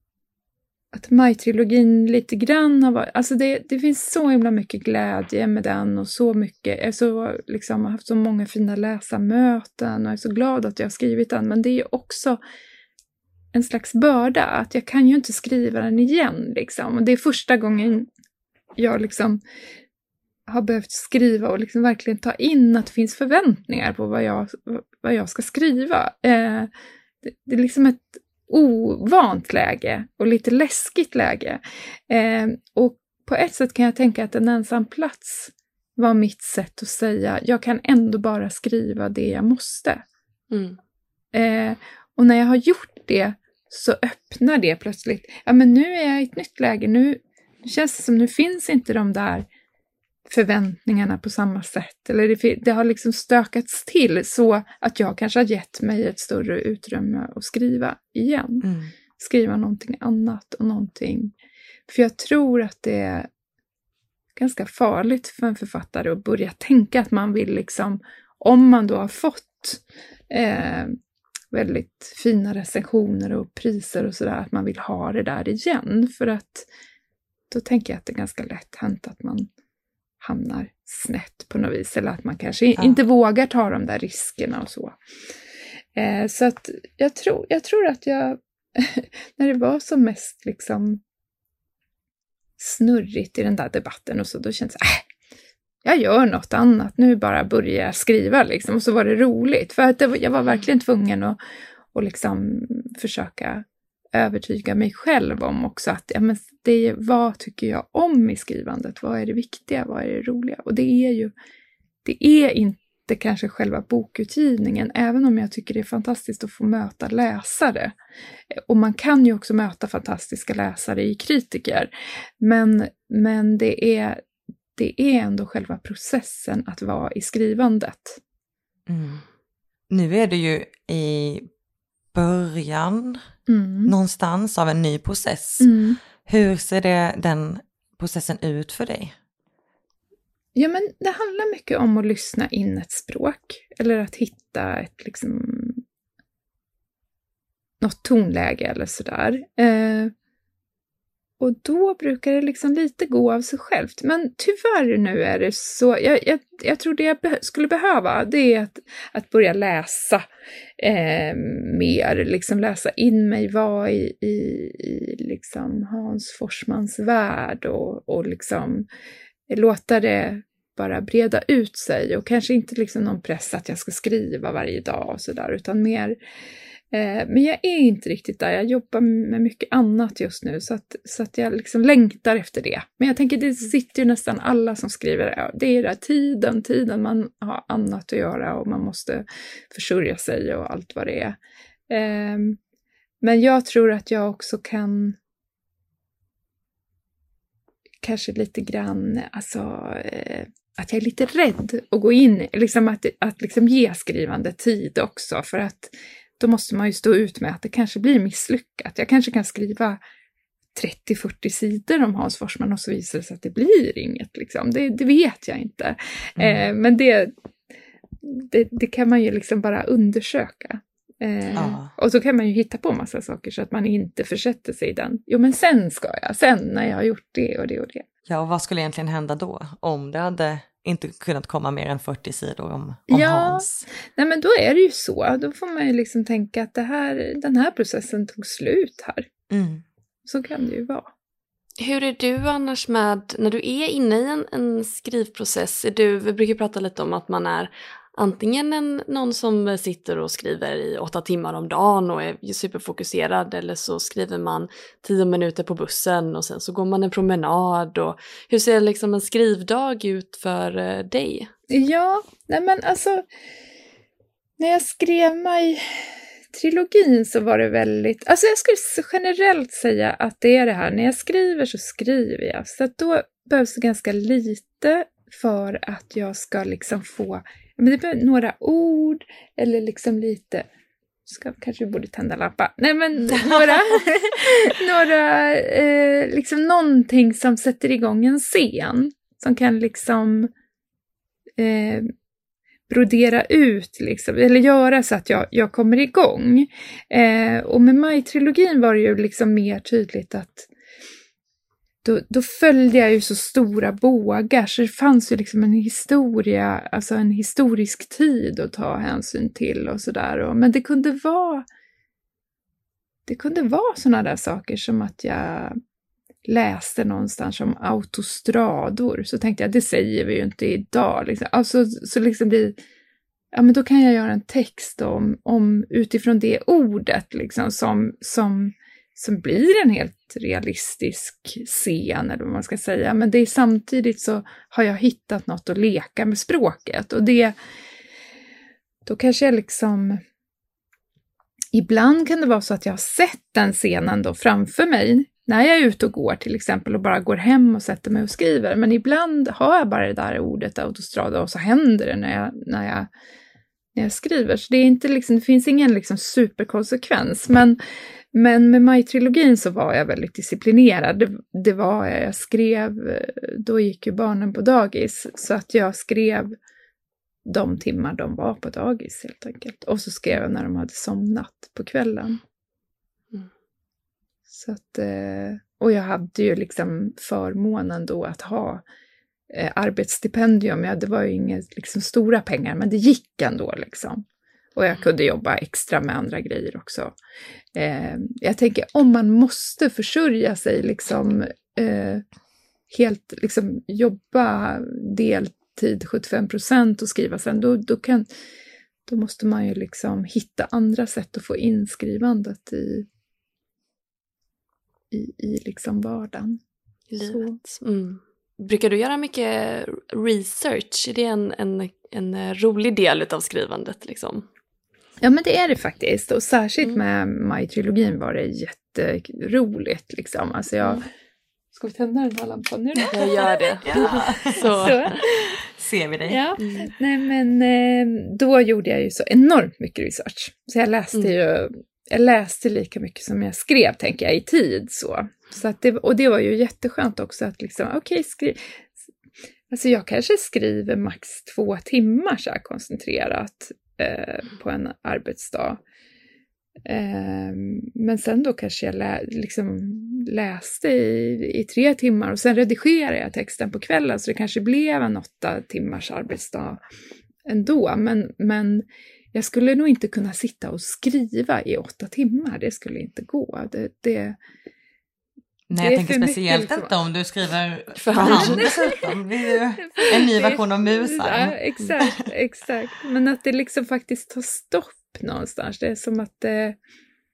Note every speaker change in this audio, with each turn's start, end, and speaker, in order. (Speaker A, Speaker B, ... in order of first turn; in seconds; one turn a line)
Speaker A: 0.9-12.4
Speaker A: 13.5-18.1
Speaker A: 18.8-19.4
Speaker A: 20.5-26.7
Speaker A: 27.2-40.0
Speaker B: 40.5-40.8
Speaker A: 41.3-49.5
Speaker A: 50.3-61.3
Speaker C: 58.6-58.9
Speaker A: 61.9-63.3
Speaker A: 64.4-71.0
Speaker A: 71.5-76.7
Speaker A: 77.5-79.5
Speaker A: 80.2-85.0
Speaker A: 86.0-91.0
Speaker A: 92.6-95.0
Speaker A: 95.8-101.4
Speaker A: 101.9-111.3
Speaker A: 112.0-118.0
Speaker A: 118.5-124.2
Speaker A: 124.8-128.2
Speaker C: 128.9-129.2
Speaker C: 129.9-131.5
Speaker C: 132.1-133.2
Speaker A: 133.5-133.9
Speaker C: 133.9-135.7
Speaker A: 135.6-136.0
Speaker C: 136.2-139.1
Speaker A: 140.6-145.8
Speaker A: 147.8-150.1
Speaker A: 151.4-160.2
Speaker A: 160.8-168.9
Speaker A: 169.5-176.2
Speaker A: 176.9-191.4
Speaker A: 191.9-192.6
Speaker A: 193.2-195.2
Speaker A: 198.0-210.0
Speaker A: 210.8-217.3
Speaker C: 216.4-216.7
Speaker A: 218.2-228.1
Speaker C: 221.5-221.9
Speaker C: 228.3-233.9
Speaker A: 233.1-239.3
Speaker C: 239.5-239.8
Speaker A: 240.3-241.1
Speaker B: 241.8-261.5
Speaker A: 261.7-263.2
Speaker A: 264.6-280.6
Speaker A: 281.3-290.5
Speaker C: 283.3-284.0
Speaker A: 291.6-292.1
Speaker A: 292.9-300.7
Speaker A: 302.0-311.6
Speaker A: 313.3-315.8
Speaker A: 316.5-322.8
Speaker A: 323.5-337.6
Speaker A: 339.1-340.2
Speaker A: 341.7-353.1
Speaker A: 353.9-357.8
Speaker A: 358.3-366.6
Speaker A: 367.5-372.4
Speaker A: 374.5-378.8
Speaker A: 379.5-384.2
Speaker A: 384.8-387.1
Speaker A: 387.7-392.2
Speaker A: 392.9-398.3
Speaker A: 399.1-403.1
Speaker A: 405.1-406.6
Speaker B: 407.1-414.5
Speaker A: 407.2-407.6
Speaker A: 415.2-421.0
Speaker A: 421.7-425.6
Speaker B: 423.1-425.2
Speaker C: 423.8-426.4
Speaker A: 426.3-438.8
Speaker B: 426.6-426.9
Speaker A: 439.7-445.8
Speaker A: 446.9-456.8
Speaker A: 457.5-464.4
Speaker C: 465.7-472.3
Speaker A: 465.8-466.9
Speaker B: 468.0-468.7
Speaker A: 468.1-469.2
Speaker A: 469.8-476.8